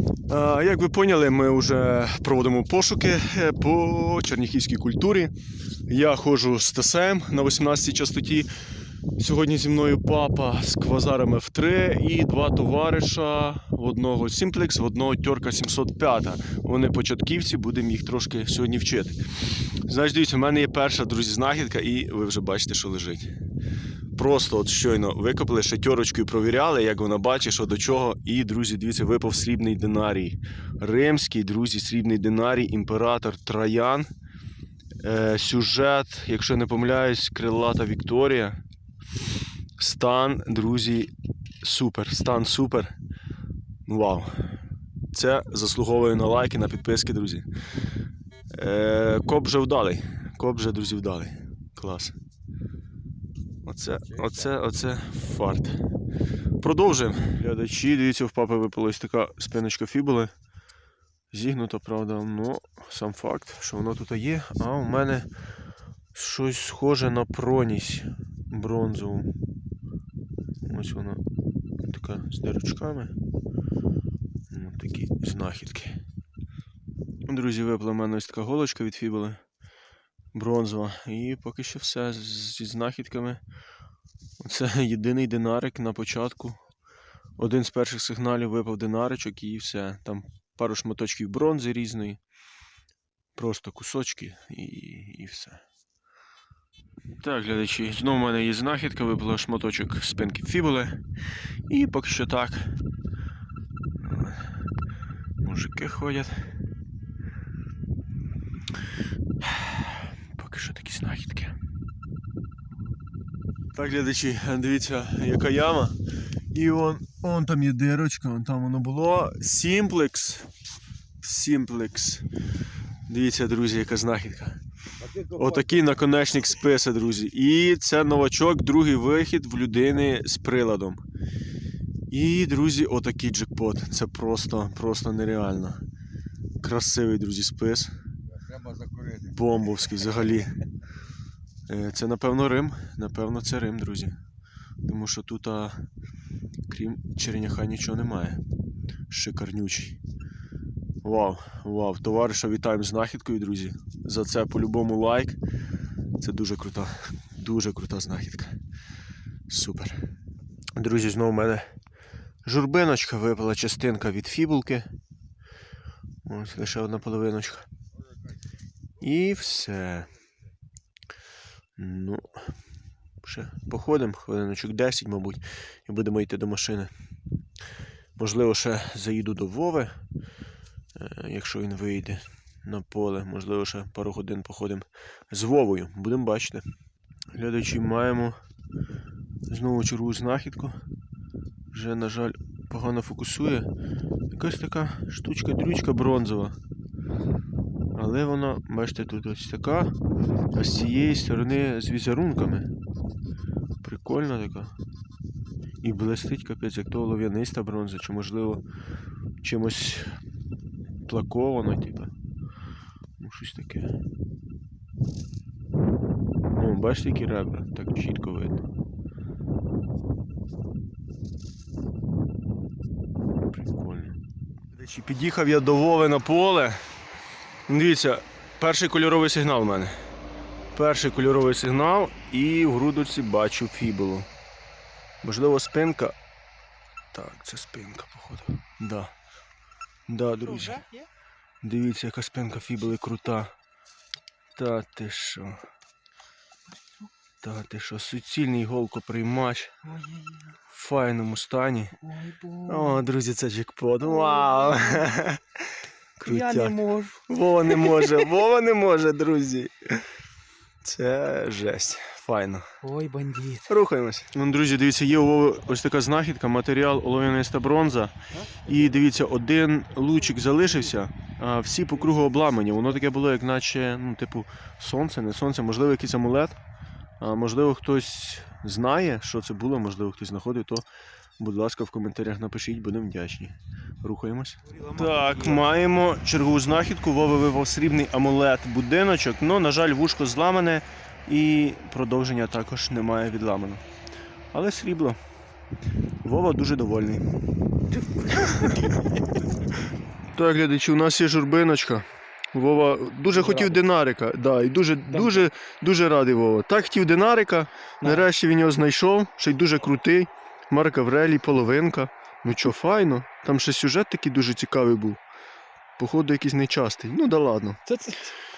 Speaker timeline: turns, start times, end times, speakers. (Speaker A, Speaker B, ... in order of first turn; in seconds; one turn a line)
Speaker A: 0.3-5.3
Speaker A: 5.9-8.5
Speaker A: 9.2-23.3
Speaker A: 24.1-34.1
Speaker A: 35.0-38.6
Speaker A: 39.8-41.1
Speaker A: 41.6-42.9
Speaker A: 43.9-44.4
Speaker A: 45.1-47.5
Speaker A: 48.5-52.2
Speaker A: 53.6-55.8
Speaker A: 56.6-60.3
Speaker A: 61.3-65.3
Speaker A: 66.1-69.3
Speaker A: 70.6-71.2
Speaker A: 71.8-73.2
Speaker A: 74.5-76.0
Speaker A: 77.3-79.4
Speaker A: 80.3-83.4
Speaker A: 84.4-86.6
Speaker A: 87.4-92.2
Speaker A: 93.3-95.6
Speaker A: 97.2-101.0
Speaker A: 101.7-102.7
Speaker A: 104.0-104.5
Speaker A: 105.4-106.3
Speaker A: 109.4-111.5
Speaker A: 113.7-116.0
Speaker A: 116.5-120.5
Speaker A: 121.2-122.2
Speaker A: 123.1-124.6
Speaker A: 125.2-131.0
Speaker A: 132.1-135.8
Speaker A: 136.6-137.9
Speaker A: 139.1-140.6
Speaker A: 141.7-144.2
Speaker A: 144.8-145.8
Speaker A: 146.7-148.4
Speaker A: 149.1-150.0
Speaker A: 151.0-155.4
Speaker A: 156.2-158.6
Speaker A: 159.5-160.0
Speaker A: 160.8-161.7
Speaker A: 162.4-164.9
Speaker A: 166.2-167.7
Speaker A: 169.0-170.1
Speaker A: 171.8-172.5
Speaker A: 173.2-176.9
Speaker A: 178.2-180.0
Speaker A: 180.9-186.7
Speaker A: 187.3-188.4
Speaker A: 189.5-190.8
Speaker A: 191.7-193.7
Speaker A: 194.3-196.6
Speaker A: 197.9-199.9
Speaker A: 200.5-202.7
Speaker A: 203.8-204.7
Speaker A: 205.8-208.6
Speaker A: 209.4-210.2
Speaker A: 211.0-212.1
Speaker A: 213.2-213.9
Speaker A: 216.6-218.7
Speaker A: 223.5-224.2
Speaker A: 224.7-226.8
Speaker A: 227.7-229.9
Speaker A: 230.7-234.3
Speaker A: 235.2-236.2
Speaker A: 237.1-239.1
Speaker A: 240.1-240.9
Speaker B: 240.5-241.0
Speaker A: 241.6-243.5
Speaker A: 244.6-245.6
Speaker A: 247.4-249.8
Speaker B: 249.8-250.6
Speaker A: 250.7-252.0
Speaker B: 252.0-253.0
Speaker A: 252.7-255.4
Speaker B: 254.1-255.2
Speaker B: 256.2-258.3
Speaker A: 256.2-260.1
Speaker A: 260.8-262.8
Speaker B: 262.8-263.7
Speaker A: 263.7-276.6
Speaker A: 277.2-280.9
Speaker A: 281.4-293.8
Speaker B: 284.7-285.6
Speaker A: 294.5-295.2
Speaker A: 296.2-297.3
Speaker B: 297.9-299.1
Speaker A: 300.3-315.2
Speaker B: 303.3-303.8
Speaker B: 305.1-305.5
Speaker A: 316.0-317.8
Speaker B: 317.9-318.3